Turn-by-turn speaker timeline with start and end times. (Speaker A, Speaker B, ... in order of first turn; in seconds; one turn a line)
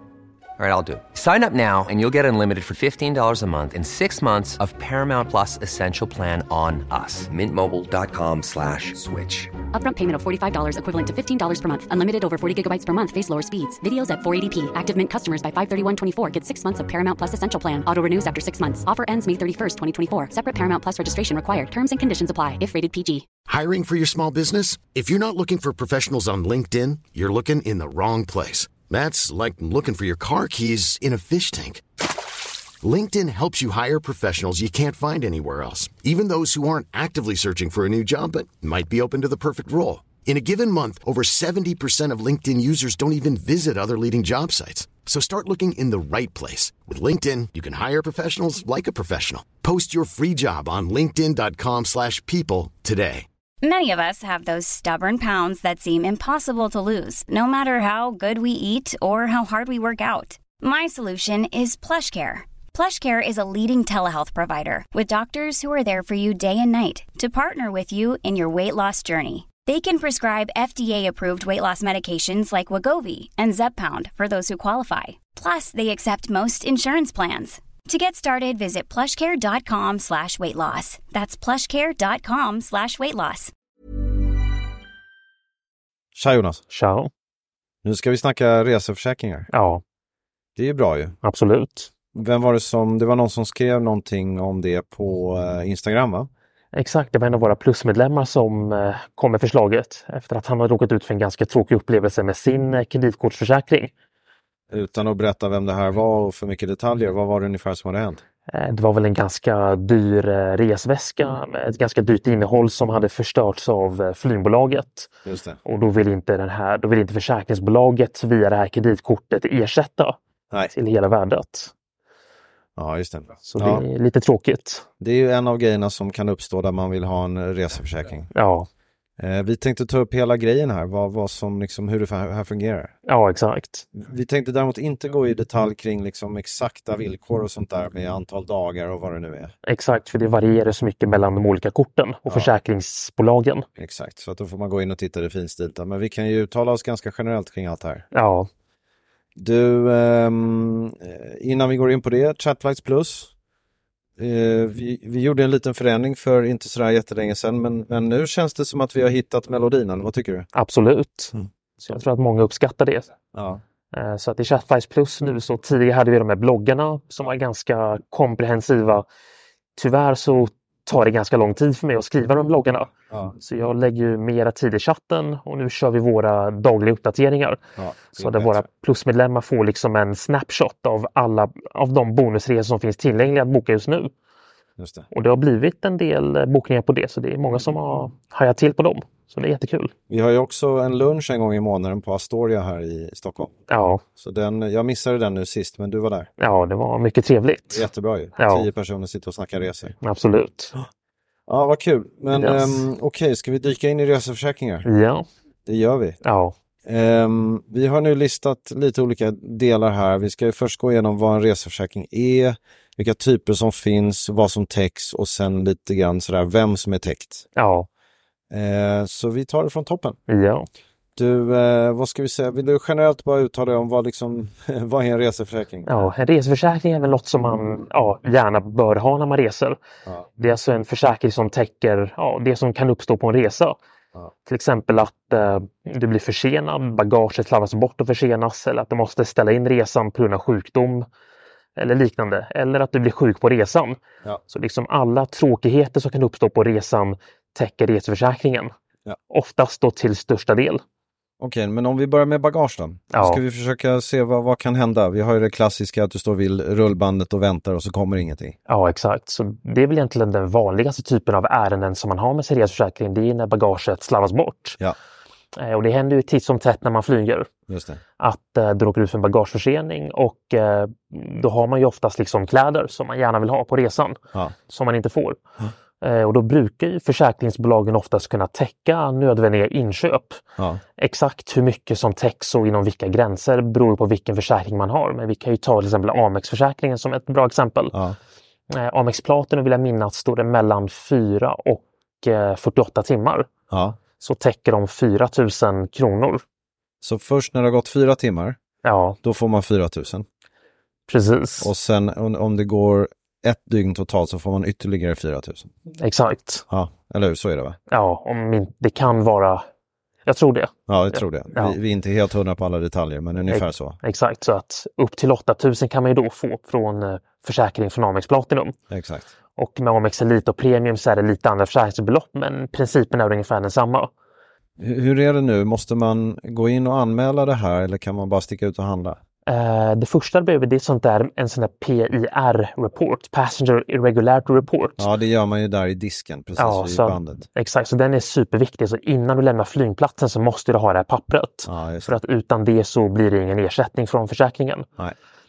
Speaker A: 0.6-9.5
Speaker B: 9.7-23.3
Speaker C: 23.5-31.8
Speaker C: 32.8-53.2
Speaker D: 53.6-83.5
Speaker E: 86.1-86.6
Speaker F: 86.7-87.1
Speaker E: 87.8-89.5
Speaker F: 89.5-89.8
Speaker E: 90.5-91.2
Speaker F: 91.2-91.9
Speaker E: 92.1-96.3
Speaker F: 96.7-103.9
Speaker E: 104.7-108.2
Speaker F: 108.5-115.1
Speaker E: 115.2-115.6
Speaker F: 115.6-121.7
Speaker E: 122.8-123.8
Speaker F: 123.5-124.9
Speaker E: 125.0-128.3
Speaker F: 128.3-128.7
Speaker E: 129.2-132.9
Speaker F: 133.1-133.9
Speaker E: 133.9-139.5
Speaker F: 139.7-143.7
Speaker E: 143.8-148.0
Speaker F: 148.1-148.5
Speaker E: 149.3-153.3
Speaker E: 154.2-160.5
Speaker F: 160.5-163.1
Speaker E: 163.3-163.6
Speaker F: 163.9-169.1
Speaker F: 169.8-177.6
Speaker E: 173.1-173.3
Speaker E: 177.8-178.6
Speaker F: 178.1-184.1
Speaker E: 184.8-185.1
Speaker F: 185.1-189.9
Speaker E: 190.1-193.5
Speaker F: 193.7-194.0
Speaker E: 194.2-196.3
Speaker F: 196.4-197.8
Speaker E: 197.7-199.9
Speaker F: 198.4-198.7
Speaker F: 200.0-200.7
Speaker E: 201.5-204.8
Speaker F: 202.3-202.8
Speaker F: 204.8-205.2
Speaker E: 205.7-206.2
Speaker F: 206.2-206.5
Speaker E: 206.8-217.4
Speaker F: 217.6-217.9
Speaker E: 218.5-220.2
Speaker F: 220.3-220.7
Speaker E: 221.2-225.9
Speaker F: 225.8-229.8
Speaker F: 230.4-233.8
Speaker F: 234.5-241.1
Speaker F: 241.8-248.7
Speaker F: 249.3-250.8
Speaker E: 251.4-258.6
Speaker F: 253.1-253.4
Speaker F: 258.7-264.8
Speaker F: 265.6-267.5
Speaker E: 267.7-268.0
Speaker F: 268.2-275.4
Speaker F: 276.0-280.4
Speaker F: 281.0-287.9
Speaker F: 288.7-293.5
Speaker E: 293.7-294.0
Speaker F: 294.2-296.4
Speaker E: 297.0-298.6
Speaker F: 298.8-299.2
Speaker E: 299.2-300.2
Speaker F: 301.1-301.7
Speaker E: 301.6-305.7
Speaker F: 305.9-306.6
Speaker E: 306.7-307.8
Speaker F: 307.9-309.6
Speaker F: 310.3-311.8
Speaker E: 310.9-314.0
Speaker F: 313.5-318.8
Speaker E: 318.9-319.3
Speaker F: 319.6-324.1
Speaker E: 324.8-329.2
Speaker F: 329.5-335.1
Speaker E: 335.0-337.4
Speaker F: 336.6-344.9
Speaker E: 341.6-342.2